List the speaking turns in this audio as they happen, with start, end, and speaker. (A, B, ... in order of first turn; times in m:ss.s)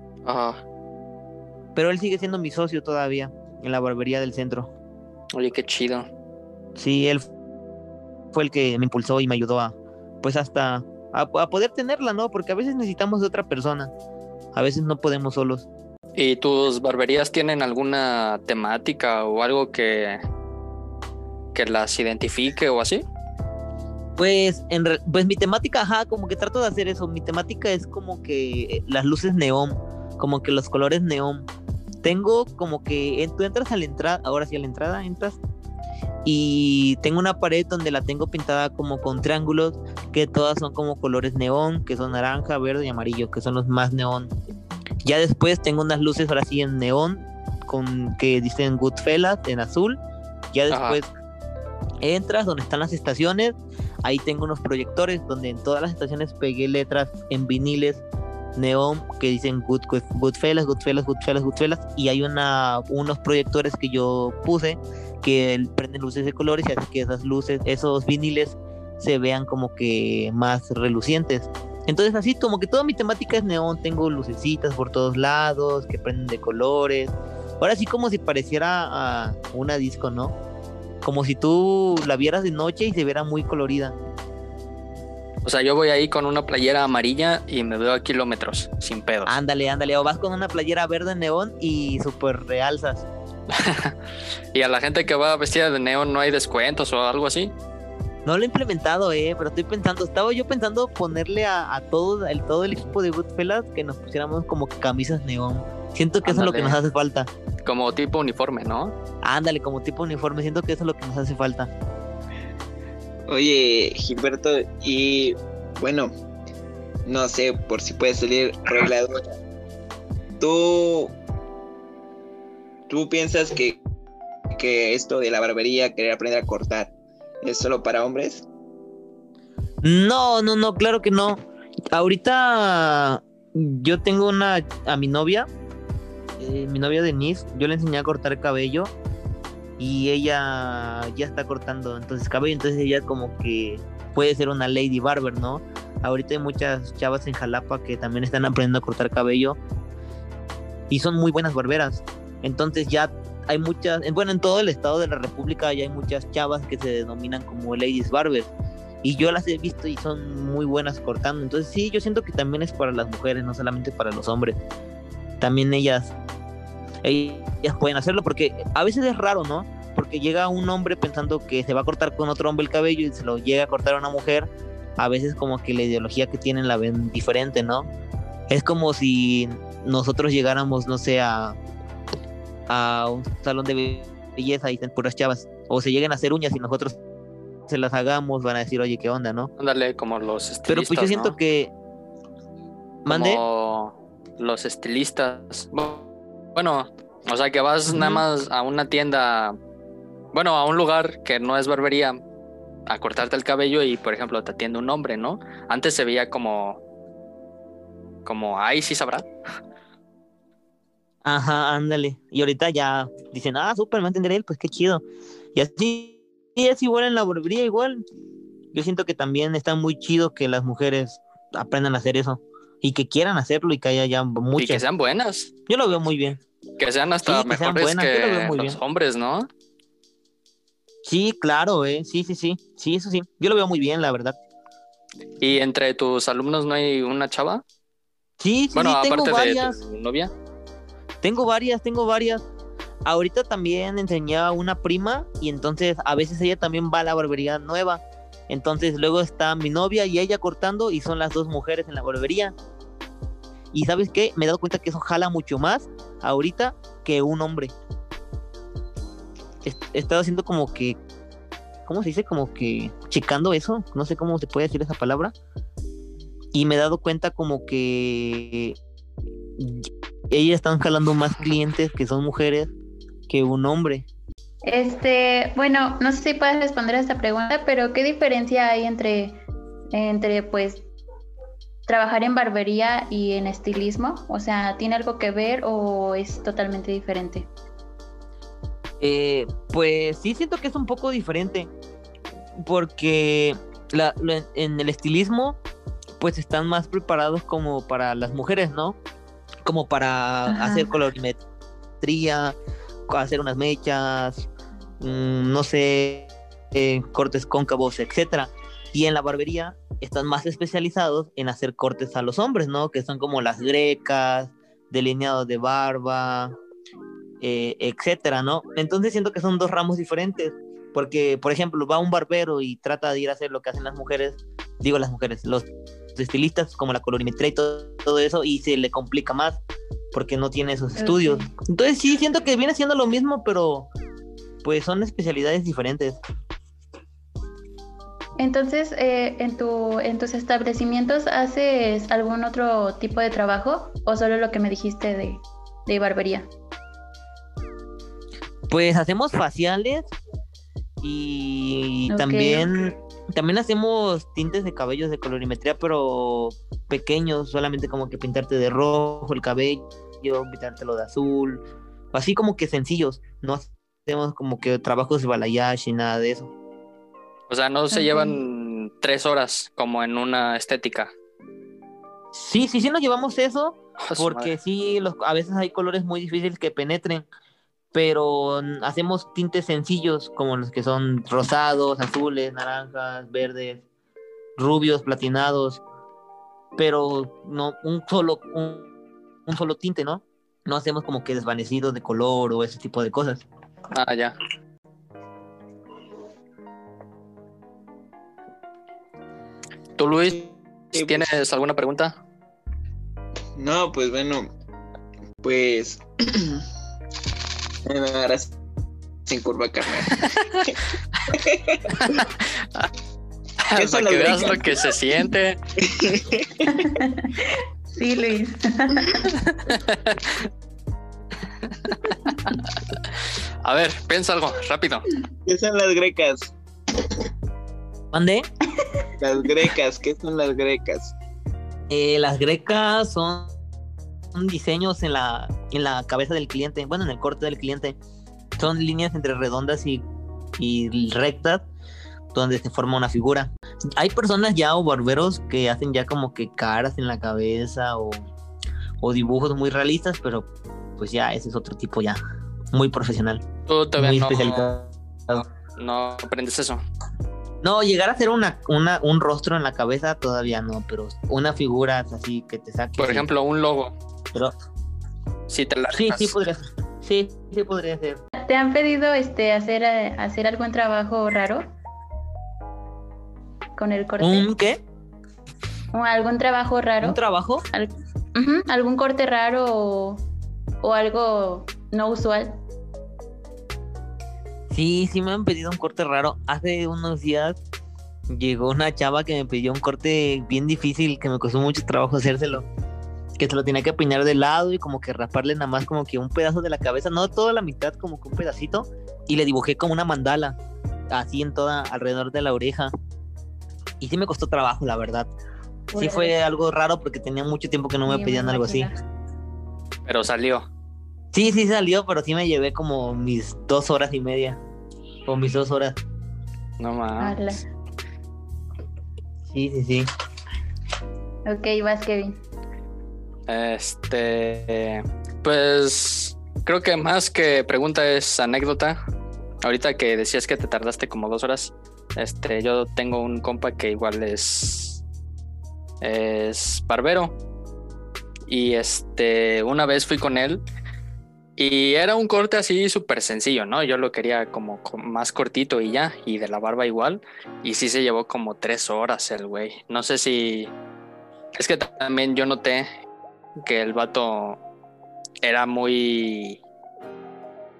0:00.2-0:00.6 A
0:01.7-0:04.7 B
0:05.4-0:06.1 A
0:06.8-0:07.3 B
0:08.3-0:13.9 B
0:14.5-0:15.7 B
0:16.2-0:20.2 A
0:21.5-0:23.0 A
0:24.2-0:31.5 B
0:32.0-0:35.4 B
0:36.2-0:44.3 B
0:45.0-0:50.0 B
0:50.5-0:51.1 B
0:50.7-0:51.0 A
0:52.0-0:58.0 B
0:58.6-1:20.4 B
1:21.0-1:24.0 B
1:25.4-1:29.3 A
1:29.2-1:33.1 B
1:33.5-1:33.9 A
1:34.5-1:37.5 A
1:38.2-1:47.3 B
1:46.2-1:46.8 A
1:47.6-1:48.9 A
1:49.2-1:51.7 B
1:53.3-1:56.1 C
1:57.0-1:59.3 C
2:00.4-2:01.2 C
2:02.9-2:03.8 C
2:04.5-2:08.4 C
2:09.8-2:11.4 B
2:11.9-2:15.5 B
2:16.4-2:18.9 B
2:19.8-2:29.6 B
2:30.9-2:38.5 B
2:39.0-2:44.6 B
2:45.4-2:46.1 B
2:47.0-2:57.9 B
2:58.5-3:01.6 B
3:02.7-3:07.0 B
3:07.7-3:09.5 B
3:09.6-3:11.3 A
3:10.7-3:11.7 B
3:13.0-3:13.4 B
3:13.1-3:16.0 A
3:16.6-3:19.6 A
3:17.9-3:18.2 B
3:20.3-3:22.2 A
3:22.9-3:26.8 A
3:28.2-3:29.2 A
3:31.2-3:35.0 B
3:35.5-3:38.0 B
3:38.7-3:44.8 B
3:44.6-3:45.5 A
3:45.7-3:46.4 B
3:46.8-3:49.5 A
3:47.2-3:48.8 B
3:51.0-3:54.4 B
3:55.4-3:57.6 A
3:58.4-3:59.8 B
3:58.7-4:00.3 A
4:01.2-4:02.4 B
4:03.0-4:12.5 B
4:13.7-4:17.7 B
4:19.6-4:21.0 B
4:21.8-4:25.3 B
4:26.5-4:28.8 B
4:29.6-4:32.7 B
4:33.3-4:34.1 B
4:34.6-4:39.4 D
4:39.9-4:40.9 D
4:41.9-4:47.5 D
4:49.0-4:51.7 B
4:52.6-4:55.6 B
4:56.2-4:59.0 B
4:59.6-5:01.4 B
5:00.5-5:00.9 D
5:02.0-5:02.6 B
5:03.1-5:04.5 B
5:05.0-5:16.6 B
5:17.4-5:29.6 B
5:30.1-5:33.9 B
5:31.0-5:31.5 D
5:34.6-5:36.2 B
5:38.4-5:46.5 D
5:48.7-5:50.1 B
5:51.0-6:06.5 B
5:52.1-5:52.7 D
6:07.5-6:11.1 A
6:07.9-6:08.4 D
6:12.3-6:17.3 B
6:14.0-6:14.5 A
6:17.9-6:23.8 B
6:24.6-6:25.8 B
6:26.8-6:28.9 B
6:29.5-6:33.4 B
6:33.9-6:34.4 A
6:40.0-6:42.1 A
6:40.9-6:41.3 C
6:43.6-6:44.5 C
6:45.4-6:46.6 C
6:47.8-6:48.5 C
6:49.2-6:50.8 C
6:51.3-6:52.2 C
6:52.0-6:52.9 A
6:53.7-6:55.6 A
6:53.7-6:54.9 C
6:55.8-6:56.8 C
6:56.7-6:57.4 D
6:58.0-6:59.3 D
6:59.7-7:00.4 A
7:01.9-7:02.1 A
7:03.6-7:05.0 A
7:05.4-7:06.5 C
7:08.1-7:08.5 B
7:09.2-7:11.1 C
7:11.9-7:13.5 B
7:14.3-7:18.0 B
7:18.6-7:20.0 B
7:20.6-7:21.6 B
7:22.3-7:28.2 B
7:29.0-7:32.2 B
7:32.7-7:33.4 B
7:33.7-7:34.7 A
7:34.0-7:35.4 B
7:35.3-7:36.8 A
7:37.6-7:43.2 B
7:43.0-7:44.0 A
7:45.5-7:46.3 A
7:45.9-7:48.2 B
7:48.4-7:51.7 D
7:53.8-7:54.5 D
7:54.2-7:54.8 B
7:55.9-7:57.2 D
7:57.0-7:57.6 B
7:57.7-8:00.2 D
8:00.8-8:02.6 D
8:04.7-8:07.6 B
8:08.3-8:12.7 B
8:13.4-8:20.6 B
8:21.1-8:22.9 B
8:24.0-8:25.3 B
8:25.9-8:26.4 D
8:26.0-8:28.9 B
8:28.0-8:28.9 D
8:30.0-8:30.6 A
8:31.3-8:34.6 B
8:35.2-8:36.0 B
8:36.8-8:37.5 A
8:37.2-8:37.6 D
8:39.5-8:40.1 B
8:41.4-8:42.4 D
8:43.5-8:49.0 A
8:49.6-8:55.0 A
8:56.0-8:57.4 A
8:58.5-9:00.6 A
9:01.6-9:10.7 A
9:11.6-9:12.9 A
9:13.6-9:14.6 A
9:15.4-9:16.6 A